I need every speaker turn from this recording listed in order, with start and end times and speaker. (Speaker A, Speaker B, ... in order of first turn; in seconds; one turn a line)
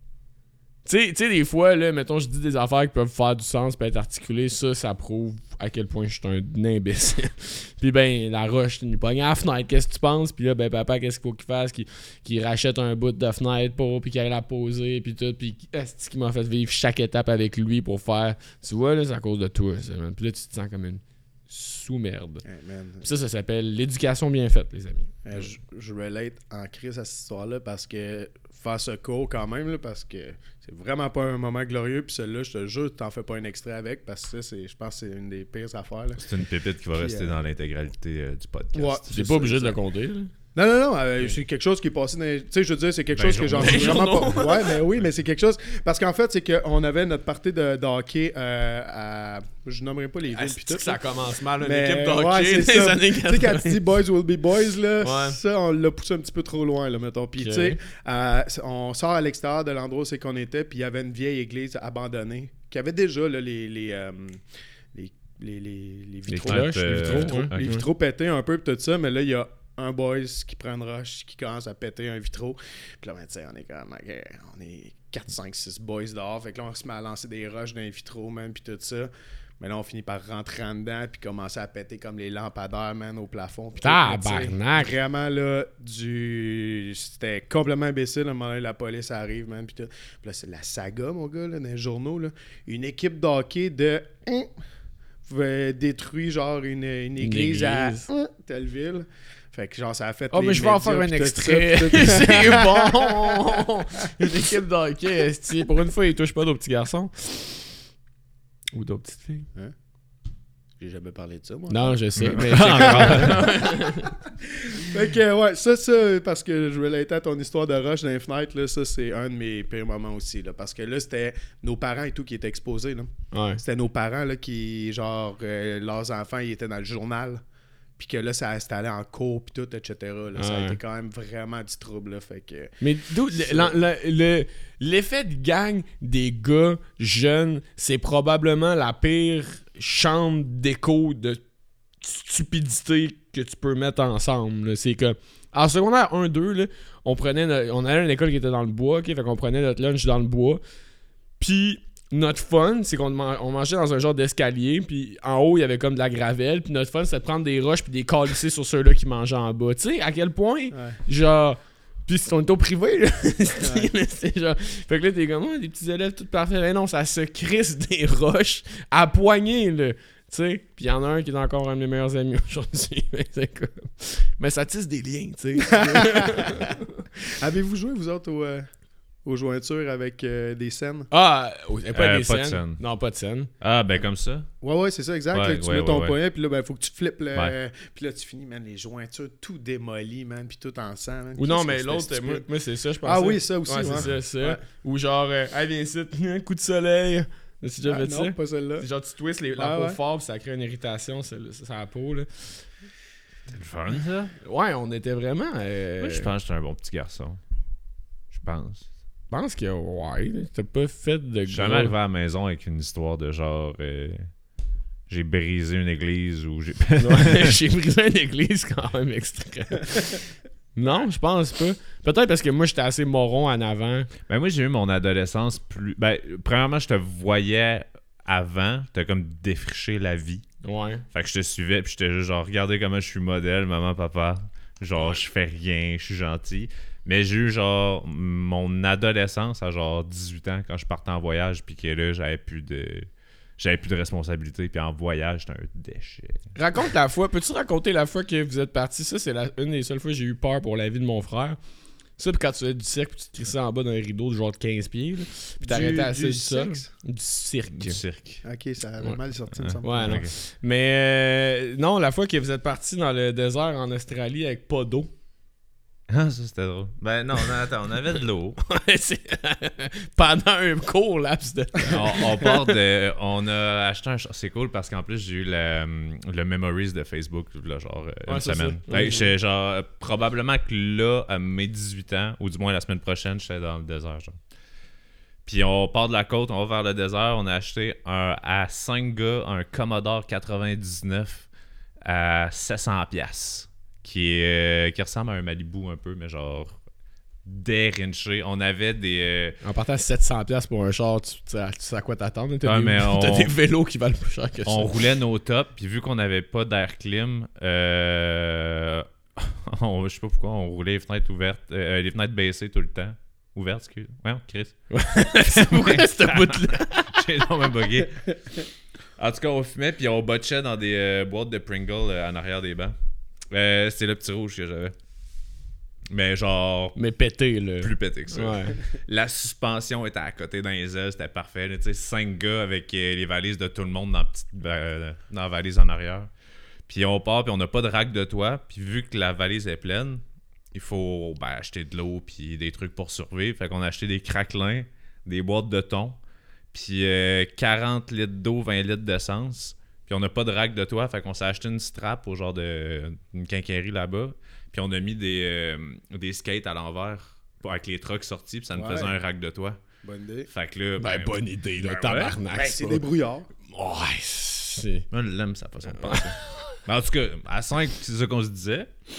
Speaker A: 0.8-22.4
Speaker B: 22.4-23.1
Speaker A: 23.0-25.1
Speaker B: 25.2-36.2
Speaker C: 36.2-39.0
Speaker B: 37.0-37.4
Speaker B: 38.7-39.8
Speaker A: 39.1-40.3
Speaker B: 40.5-51.0
Speaker C: 43.1-44.1
Speaker A: 43.5-44.8
Speaker A: 50.3-53.8
Speaker B: 51.6-94.5
Speaker A: 55.0-55.4
Speaker A: 57.4-57.8
Speaker A: 66.3-67.8
Speaker C: 66.5-67.8
Speaker A: 83.8-85.0
Speaker B: 95.2-103.7
Speaker A: 97.2-98.1
Speaker A: 100.3-107.7
Speaker B: 104.2-104.6
Speaker A: 108.7-109.5
Speaker B: 110.8-127.4
Speaker A: 111.7-114.1
Speaker C: 112.2-113.5
Speaker A: 123.3-123.6
Speaker B: 128.0-132.8
Speaker A: 130.3-130.8
Speaker A: 132.8-141.4
Speaker B: 133.3-133.8
Speaker A: 142.0-150.6
Speaker A: 151.4-177.0
Speaker B: 160.7-161.0
Speaker B: 163.6-163.9
Speaker B: 175.7-178.7
Speaker B: 179.2-181.1
Speaker A: 181.1-183.5
Speaker C: 181.9-182.8
Speaker C: 183.6-184.5
Speaker B: 184.6-192.5
Speaker C: 185.3-186.2
Speaker A: 191.4-202.7
Speaker B: 193.0-194.6
Speaker C: 193.8-194.1
Speaker B: 197.8-198.9
Speaker B: 199.6-200.0
Speaker C: 203.5-204.3
Speaker A: 204.4-206.3
Speaker C: 206.0-207.4
Speaker C: 208.3-208.9
Speaker A: 209.3-211.9
Speaker C: 211.5-214.3
Speaker C: 215.1-217.6
Speaker A: 217.0-224.1
Speaker C: 224.3-230.4
Speaker A: 230.6-231.0
Speaker C: 231.1-246.5
Speaker A: 246.5-251.6
Speaker A: 252.2-258.0
Speaker B: 255.6-256.9
Speaker C: 257.7-258.4
Speaker B: 258.4-260.2
Speaker C: 259.5-260.3
Speaker A: 259.8-265.1
Speaker C: 266.1-268.6
Speaker A: 268.6-272.8
Speaker C: 271.9-284.4
Speaker A: 278.3-279.3
Speaker C: 285.4-291.5
Speaker C: 292.0-296.8
Speaker C: 297.4-299.6
Speaker A: 299.6-304.9
Speaker C: 302.6-303.5
Speaker C: 304.6-318.6
Speaker A: 314.9-317.2
Speaker C: 319.2-322.9
Speaker C: 323.5-324.9
Speaker C: 326.1-327.0
Speaker A: 326.9-328.8
Speaker C: 327.8-336.3
Speaker C: 336.9-346.2
Speaker C: 346.7-359.8
Speaker B: 358.7-359.1
Speaker B: 360.0-360.5
Speaker C: 360.5-362.4
Speaker A: 361.0-363.0
Speaker B: 362.5-363.5
Speaker A: 363.7-365.1
Speaker C: 365.1-368.9
Speaker A: 365.9-366.8